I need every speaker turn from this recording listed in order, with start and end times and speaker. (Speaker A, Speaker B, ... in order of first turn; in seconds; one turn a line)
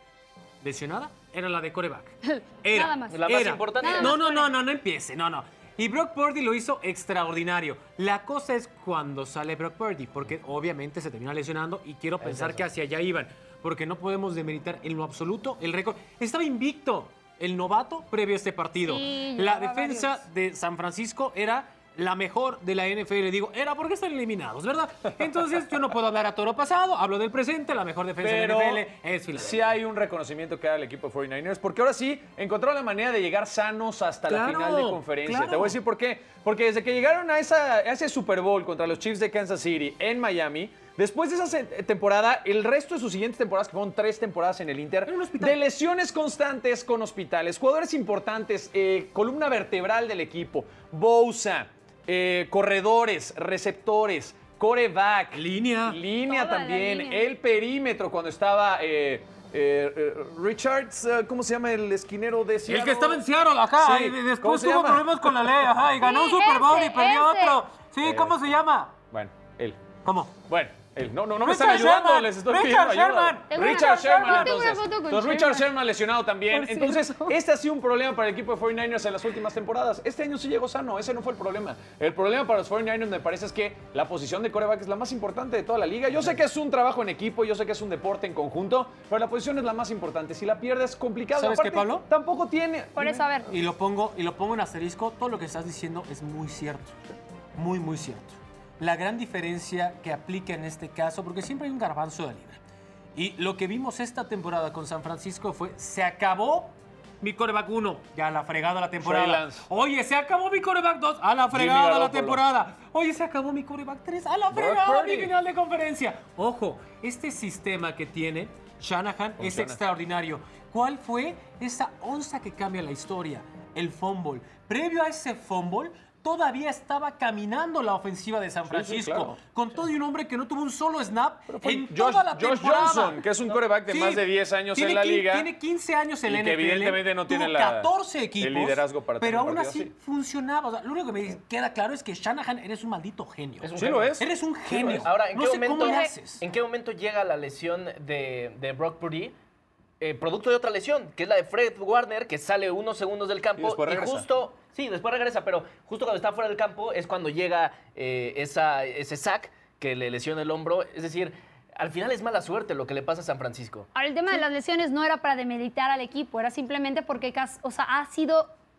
Speaker A: 0.6-29.7
Speaker B: 2.2-3.2
Speaker C: 3.1-4.2
Speaker B: 3.7-4.5
Speaker C: 12.2-12.6
Speaker B: 18.8-20.2
Speaker D: 28.2-63.2
Speaker A: 34.3-35.8
Speaker A: 45.0-45.6
Speaker A: 55.3-56.0
Speaker B: 56.2-57.3
Speaker A: 62.6-69.0
Speaker D: 63.8-65.5
Speaker B: 66.0-67.6
Speaker D: 68.0-68.4
Speaker D: 69.1-69.8
Speaker A: 70.0-70.3
Speaker D: 70.5-93.2
Speaker A: 71.4-74.6
Speaker B: 73.5-75.7
Speaker A: 76.6-77.3
Speaker B: 76.6-77.0
Speaker A: 91.3-92.0
Speaker B: 93.0-93.5
Speaker A: 93.5-102.6
Speaker A: 103.1-133.2
Speaker D: 109.0-109.7
Speaker D: 111.5-112.4
Speaker D: 114.5-115.3
Speaker D: 119.4-119.8
Speaker D: 128.7-129.4
Speaker D: 131.5-135.5
Speaker A: 133.9-146.4
Speaker D: 136.3-139.9
Speaker C: 143.6-144.2
Speaker D: 143.7-144.2
Speaker C: 144.7-149.3
Speaker B: 145.8-146.1
Speaker C: 150.0-163.9
Speaker D: 153.6-154.3
Speaker B: 163.9-168.5